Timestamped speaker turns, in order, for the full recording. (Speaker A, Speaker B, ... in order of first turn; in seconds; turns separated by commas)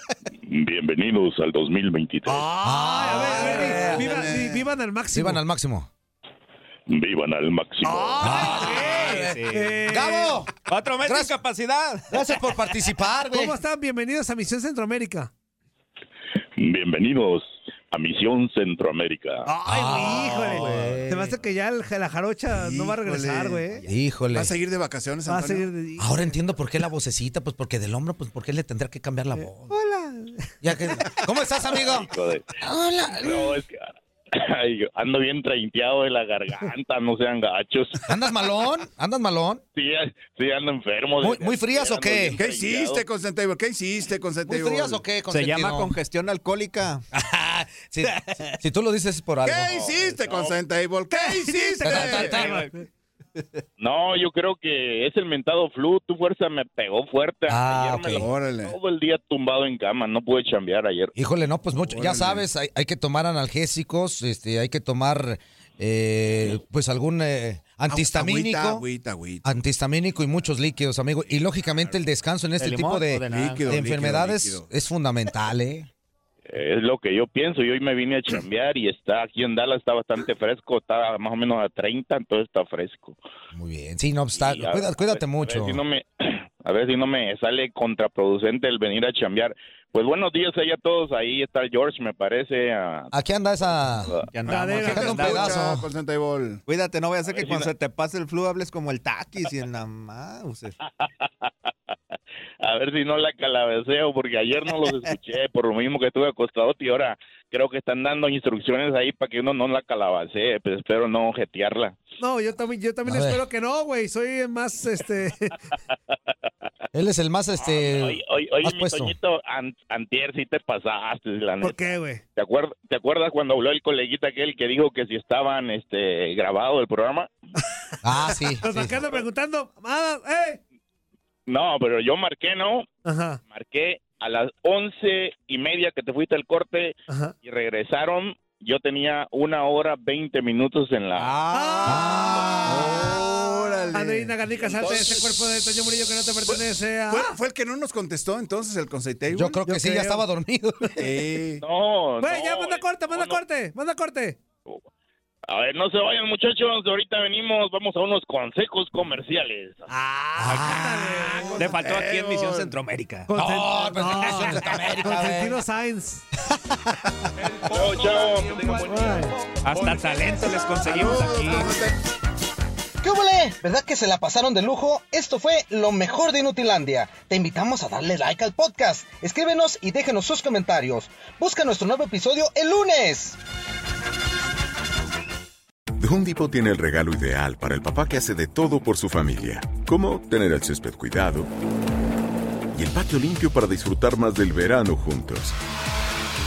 Speaker A: 0.4-2.5, Speaker B: 2.2-5.4, Speaker C: 2.6-4.2, Speaker D: 3.6-4.6, Speaker C: 5.1-5.9, Speaker A: 6.9-8.4, Speaker B: 7.8-10.3, Speaker C: 8.2-9.0, Speaker E: 8.8-9.8, Speaker C: 9.9-11.3, Speaker E: 10.7-12.2, Speaker C: 12.1-13.6, Speaker B: 13.3-15.3, Speaker A: 16.6-19.4, Speaker B: 19.4-23.8, Speaker C: 19.6-21.3, Speaker D: 20.4-21.1, Speaker D: 22.5-25.7, Speaker C: 23.8-24.5, Speaker B: 25.2-26.3, Speaker C: 26.0-29.7, Speaker B: 29.4-30.5, Speaker C: 30.6-33.6, Speaker A: 31.7-32.4, Speaker A: 33.2-38.1, Speaker C: 38.0-39.6, Speaker A: 39.8-43.0, Speaker C: 41.2-42.4, Speaker D: 42.4-45.0, Speaker C: 44.5-45.9, Speaker E: 45.3-47.0, Speaker C: 47.1-49.8, Speaker E: 48.1-48.5, Speaker D: 49.4-52.5, Speaker A: 49.7-50.5, Speaker B: 51.1-52.8, Speaker C: 51.8-52.6, Speaker E: 52.0-52.7, Speaker E: 53.4-53.6, Speaker A: 53.8-61.1, Speaker C: 57.5-58.3, Speaker D: 58.1-58.7, Speaker C: 61.1-68.8, Speaker D: 61.7-62.4, Speaker D: 67.9-69.4, Speaker C: 69.4-75.9, Speaker E: 72.6-73.9, Speaker D: 73.2-74.7, Speaker A: 76.5-83.2, Speaker C: 83.5-85.8, Speaker A: 84.3-93.1, Speaker C: 93.1-94.1, Speaker A: 94.0-94.3, Speaker E: 94.3-95.6, Speaker B: 94.5-95.2, Speaker D: 94.8-96.6, Speaker C: 94.8-95.9, Speaker E: 96.7-100.8, Speaker A: 97.2-97.7, Speaker A: 100.8-101.7, Speaker A: 102.6-112.0, Speaker B: 112.2-115.6, Speaker C: 113.0-113.4, Speaker C: 116.9-119.1, Speaker A: 117.6-127.3, Speaker B: 121.6-122.2, Speaker C: 128.0-129.1, Speaker B: 128.3-130.6, Speaker A: 131.5-132.9, Speaker B: 133.0-133.4, Speaker A: 133.5-141.4, Speaker B: 137.1-137.3, Speaker E: 141.2-142.2, Speaker B: 141.5-147.3, Speaker C: 141.8-143.1, Speaker D: 142.6-145.1, Speaker A: 144.7-145.1, Speaker D: 146.5-149.6, Speaker C: 149.3-151.2, Speaker B: 149.6-150.2, Speaker D: 151.0-151.6, Speaker A: 151.6-153.4, Speaker B: 152.2-154.4, Speaker A: 155.5-159.9, Speaker B: 159.9-161.6, Speaker C: 160.4-161.7, Speaker D: 161.4-162.7, Speaker E: 161.6-163.3, Speaker B: 163.3-166.2, Speaker C: 163.3-165.6, Speaker A: 167.6-169.3, Speaker C: 167.8-169.4, Speaker B: 168.8-169.3, Speaker E: 169.6-171.8, Speaker D: 169.7-170.0, Speaker D: 170.8-171.9, Speaker C: 173.0-183.4, Speaker F: 186.0-191.5, Speaker F: 192.7-195.6